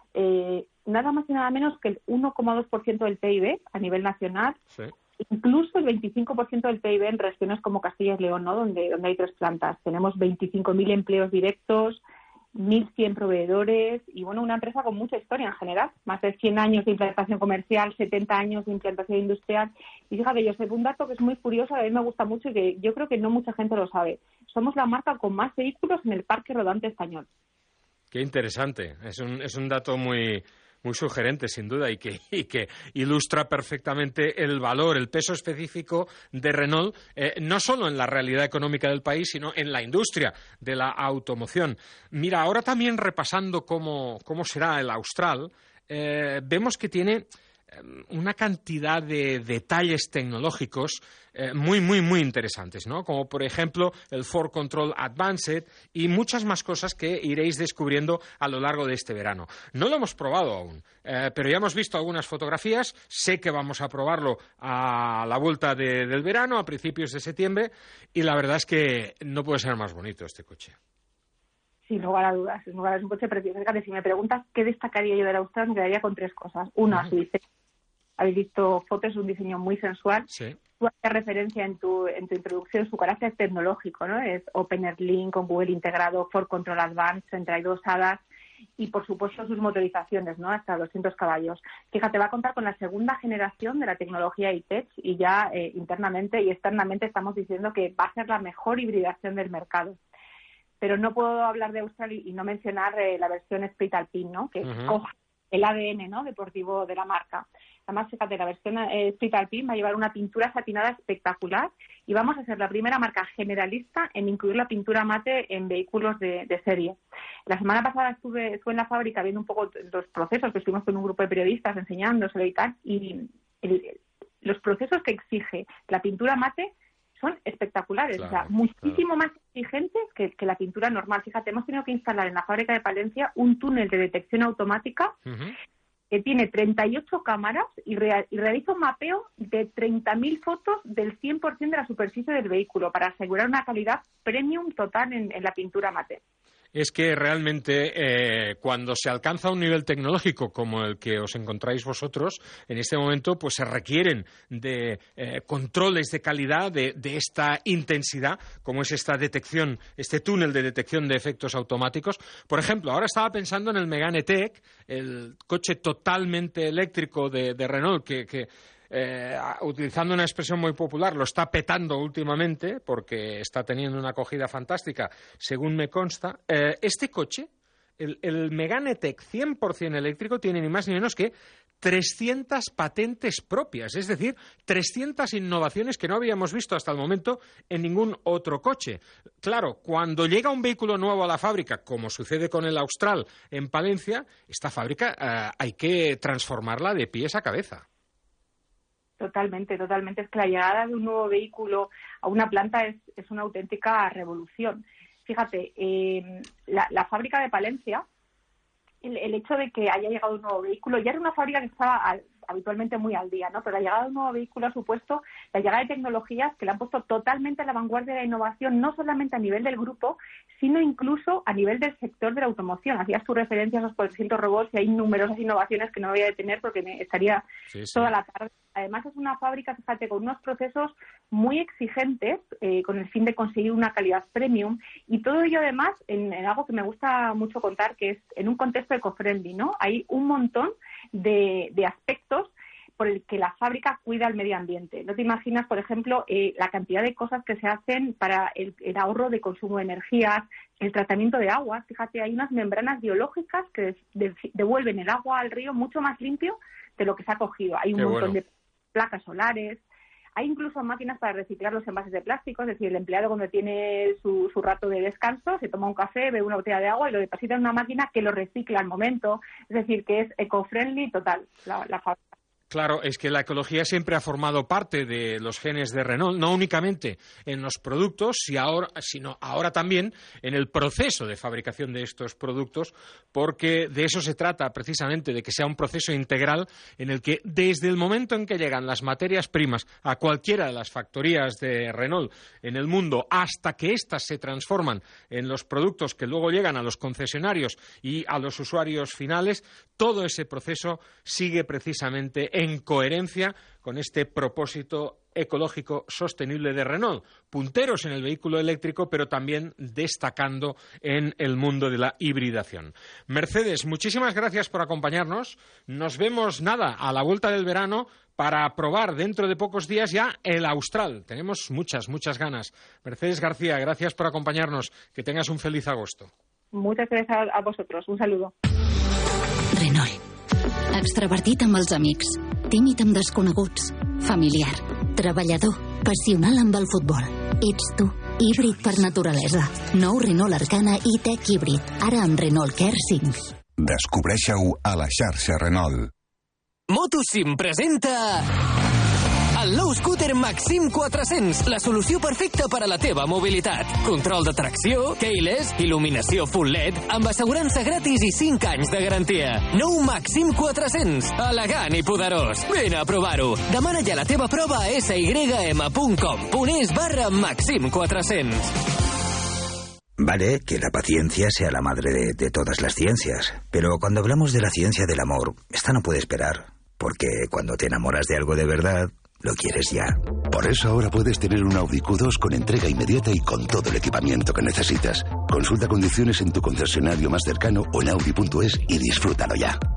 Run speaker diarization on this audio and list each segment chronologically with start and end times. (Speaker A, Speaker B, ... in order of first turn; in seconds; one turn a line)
Speaker A: 0.1-4.6
Speaker A: 5.2-12.0
Speaker A: 12.6-27.3
Speaker B: 28.1-70.8
Speaker A: 71.8-77.4
Speaker A: 78.2-88.2
Speaker B: 80.3-80.6
Speaker A: 88.8-100.0
Speaker A: 100.8-135.2
Speaker B: 104.6-105.0
Speaker B: 128.2-129.0
Speaker B: 135.3-135.5
Speaker A: 136.1-146.2
Speaker B: 146.7-177.5
Speaker B: 178.0-197.8
Speaker A: 199.2-208.1
Speaker A: 209.0-259.8
Speaker B: 227.7-228.1
Speaker B: 257.9-258.4
Speaker A: 260.4-272.4
Speaker B: 272.7-326.3
Speaker A: 326.7-328.5
Speaker C: 329.7-330.2
Speaker C: 330.9-343.5
Speaker D: 343.8-346.1
Speaker E: 346.9-348.5
Speaker E: 349.6-368.7
Speaker F: 370.2-380.2
Speaker G: 380.5-389.8